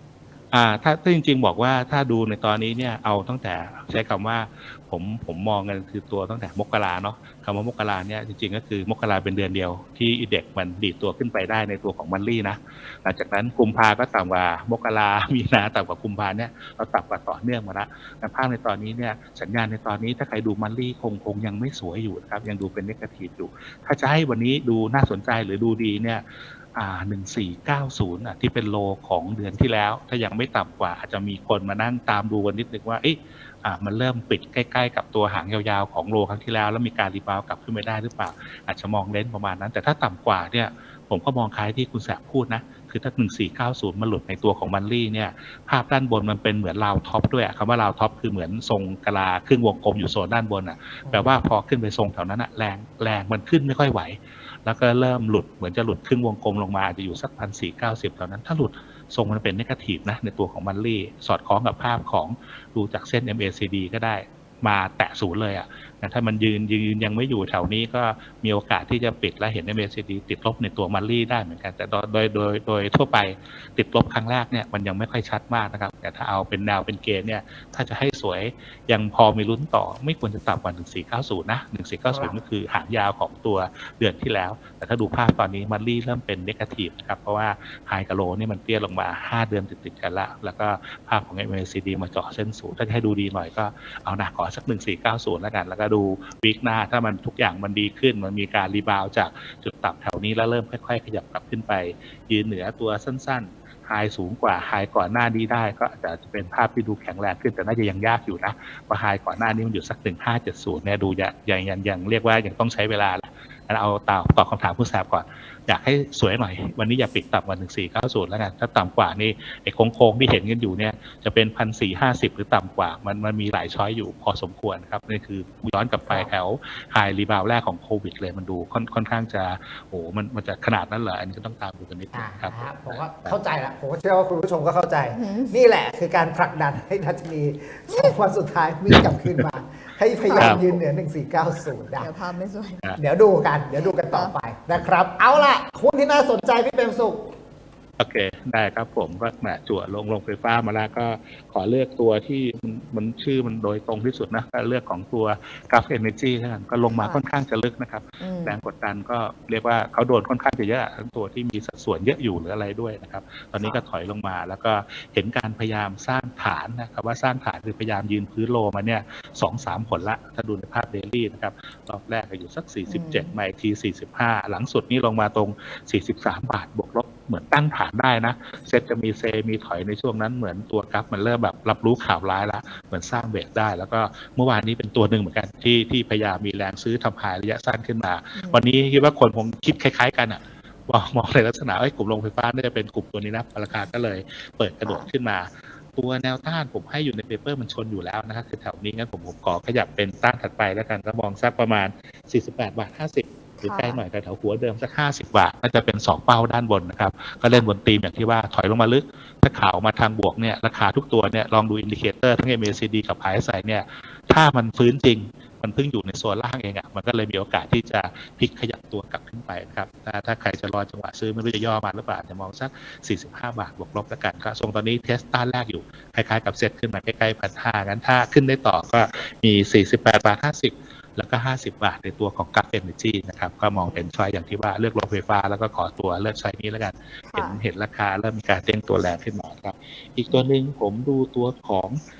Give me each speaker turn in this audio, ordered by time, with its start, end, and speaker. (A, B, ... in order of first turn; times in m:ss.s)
0:00.5-2:13.4 A
0:51.0-0:51.3 B
1:22.1-1:22.4 B
2:12.1-2:22.1 B
2:15.1-2:15.6 C
2:19.0-2:19.4 A
2:20.2-2:20.8 C
2:20.4-2:20.6 A
2:22.0-2:22.9 C
2:23.0-2:27.3 B
2:23.7-2:24.3 C
2:28.0-4:02.0 A
2:36.9-2:37.2 C
2:38.2-2:38.6 C
2:52.9-2:53.3 C
3:08.3-3:08.6 C
3:23.6-3:24.0 C
3:53.7-3:54.1 C
3:57.3-3:57.6 C